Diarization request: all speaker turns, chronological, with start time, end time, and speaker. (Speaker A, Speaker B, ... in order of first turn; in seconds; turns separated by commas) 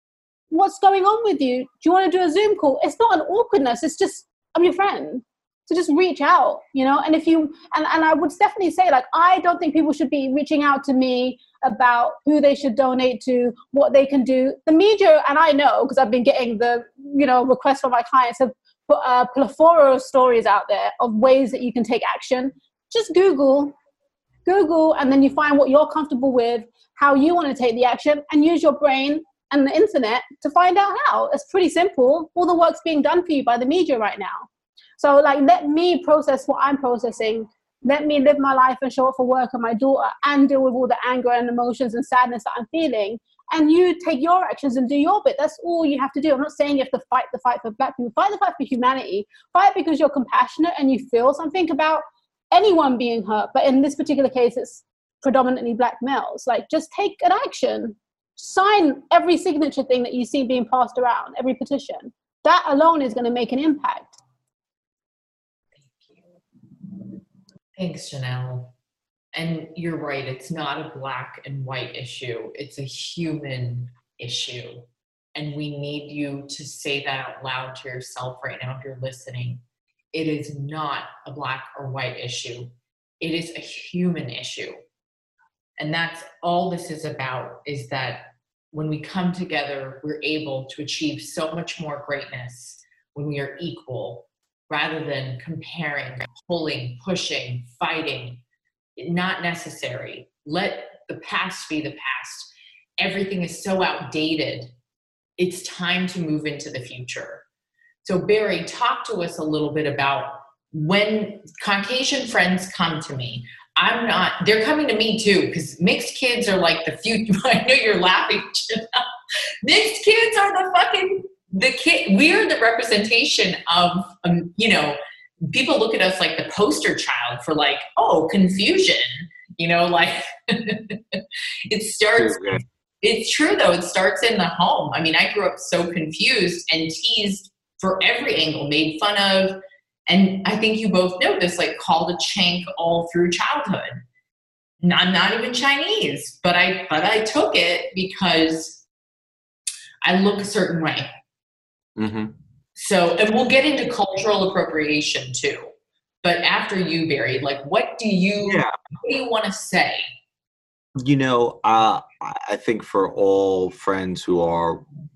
Speaker A: 0.5-23.7, Speaker A: 24.4-34.5, Speaker A: 35.0-64.2, Speaker B: 65.8-66.4, Speaker B: 67.8-68.7, Speaker B: 69.3-79.6, Speaker B: 80.1-84.8, Speaker B: 85.8-98.4, Speaker B: 99.0-104.7, Speaker B: 105.4-107.4, Speaker B: 108.0-119.0, Speaker B: 119.6-144.0, Speaker C: 132.2-132.6, Speaker B: 144.8-148.8, Speaker B: 150.0-151.1, Speaker C: 152.0-152.3, Speaker B: 152.8-155.7, Speaker B: 156.2-160.1, Speaker C: 158.4-158.7, Speaker C: 161.0-164.8